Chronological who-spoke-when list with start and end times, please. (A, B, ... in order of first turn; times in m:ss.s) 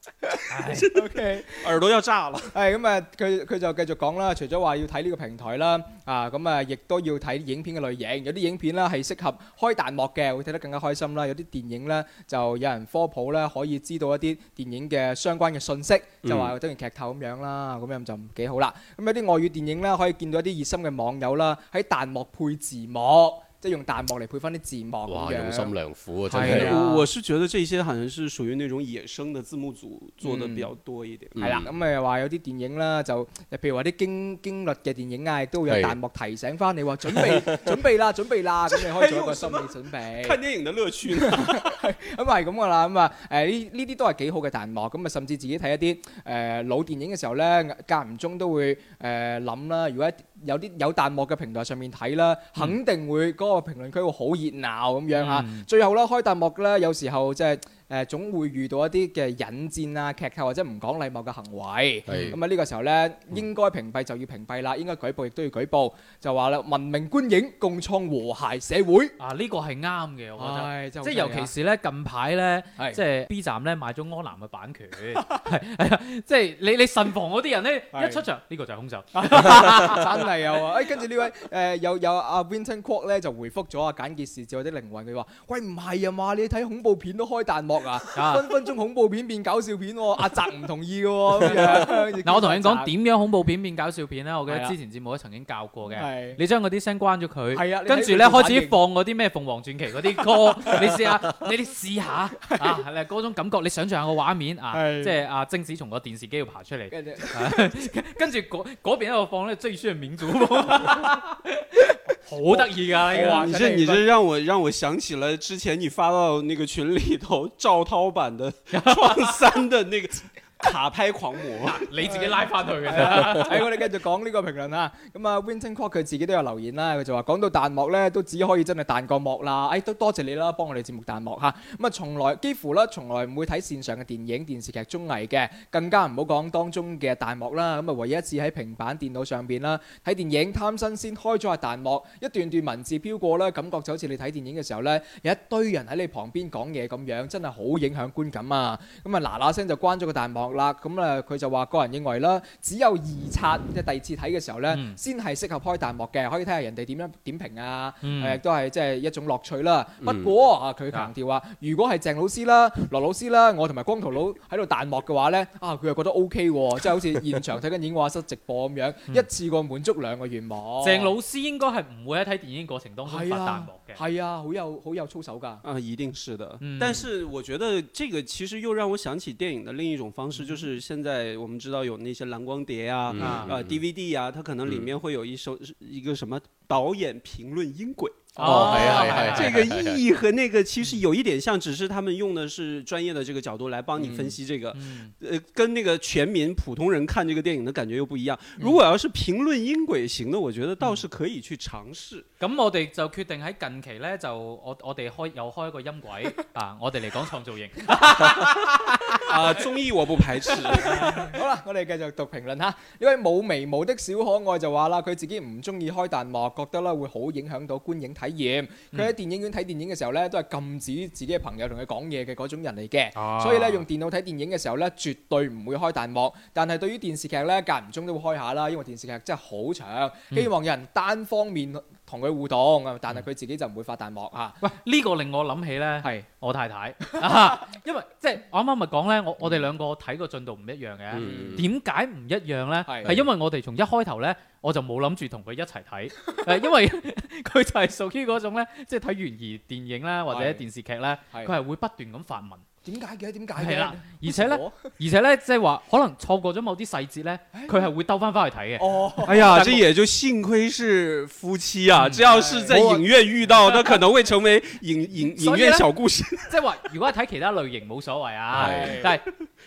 0:00.2-0:01.6 A
0:00.5-0:00.9 B
0:00.6-0:02.6 C
0:02.5-0:25.7 A
0:16.2-0:16.6 D
0:25.1-0:26.8 D
0:26.3-0:27.1 A
0:26.4-0:31.4 C
0:30.2-0:30.7 A
0:31.4-0:31.7 D
0:31.4-0:40.4 A
0:35.7-0:36.0 D
0:37.1-0:37.7 D
0:38.7-0:41.8 C
0:41.2-1:09.2 A
0:55.1-0:55.7 B
1:02.1-1:02.4 D
1:02.1-1:02.4 B
1:09.2-1:20.3 B
1:10.4-1:11.5 A
1:17.9-1:18.2 A
1:19.1-1:32.9 A
1:28.2-1:28.5 B
1:31.4-1:54.0 B
1:34.5-1:34.8 A
1:36.0-1:36.4 A
1:37.5-1:38.8 A
1:44.7-1:45.2 A
1:46.9-1:47.8 A
1:52.5-1:53.6 A
1:53.1-2:01.9 C
1:58.7-1:59.4 B
2:01.9-2:03.6 B
2:02.1-2:51.1 A
2:34.7-2:35.0 B
2:38.0-2:38.4 B
2:40.0-2:40.3 D
2:50.8-2:54.0 B
2:53.1-2:55.6 A
2:55.6-3:22.3 C
2:56.6-2:57.0 B
3:03.1-3:03.8 D
3:03.2-3:03.6 B
3:08.4-3:09.2 A
3:08.4-3:09.6 B
3:08.4-3:10.0 D
3:14.0-3:15.1 B
3:22.4-3:29.6 B
3:29.3-3:31.3 C
3:30.6-3:31.3 B
3:31.2-3:54.7 A
3:43.2-3:43.9 B
3:54.6-4:12.6 B
4:01.1-4:01.7 D
4:01.2-4:01.6 A
4:02.8-4:03.2 A
4:10.3-4:10.6 A
4:12.8-4:14.8 A
4:13.6-4:19.8 B
4:17.5-4:17.9 A
4:18.8-4:19.6 A
4:19.3-4:26.6 C
4:21.9-4:22.2 B
4:22.2-4:23.1 A
4:25.4-4:25.9 B
4:26.5-4:29.2 B
4:28.5-4:29.1 D
4:28.5-4:29.1 A